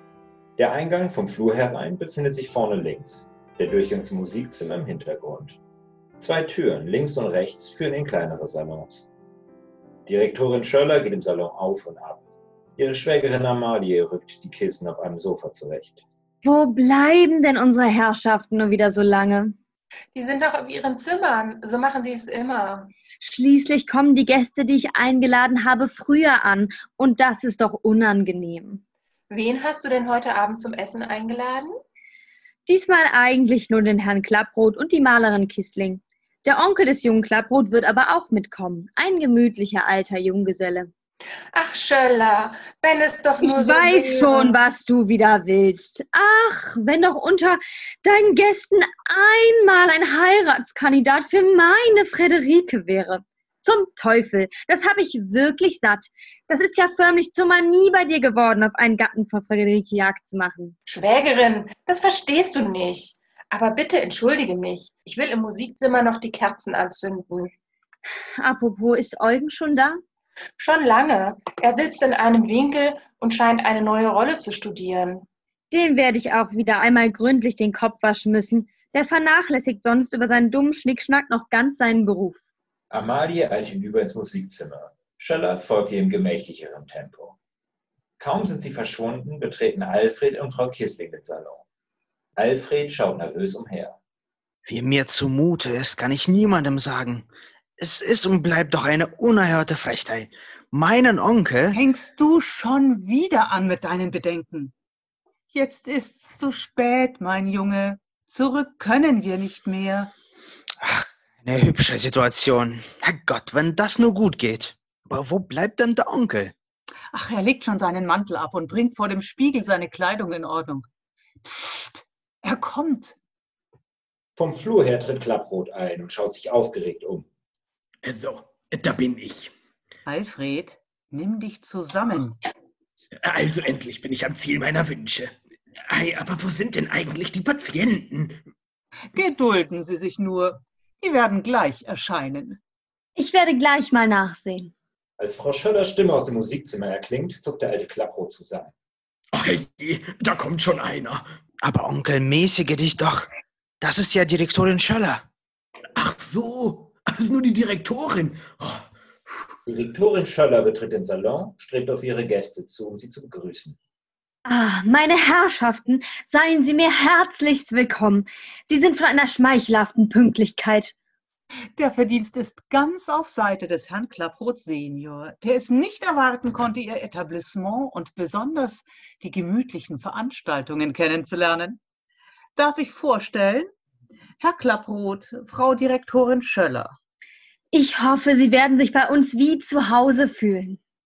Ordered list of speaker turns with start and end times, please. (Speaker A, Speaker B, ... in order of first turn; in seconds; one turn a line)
Speaker A: 0.6-5.6
Speaker A: 6.2-9.0
Speaker A: 10.1-12.2
Speaker A: 12.8-16.0
Speaker B: 16.4-19.6
Speaker C: 20.1-22.9
Speaker B: 23.2-28.8
Speaker C: 29.3-31.7
Speaker B: 32.7-40.9
Speaker C: 41.5-44.6
Speaker B: 43.4-60.7
Speaker C: 60.9-67.5
Speaker B: 68.4-70.0
Speaker C: 70.6-75.2
Speaker B: 75.7-82.4
Speaker A: 82.9-87.3
Speaker A: 88.2-91.6
Speaker A: 92.3-94.0
Speaker D: 94.7-101.8
Speaker E: 101.7-104.7
Speaker E: 105.5-110.1
Speaker D: 110.8-116.5
Speaker E: 117.1-120.9
Speaker E: 121.4-123.2
Speaker A: 124.4-127.2
Speaker F: 128.0-129.5
Speaker E: 130.1-132.4
Speaker F: 133.2-138.4
Speaker E: 139.1-142.6
Speaker B: 143.2-144.7
Speaker A: 145.2-148.7
Speaker F: 149.3-151.2
Speaker D: 151.6-153.3
Speaker D: 153.8-155.2
Speaker F: 156.0-159.5
Speaker A: 159.7-163.8
Speaker B: 164.4-170.9
Speaker E: 171.8-181.8
Speaker E: 182.6-183.7
Speaker E: 184.4-186.9
Speaker B: 187.7-190.8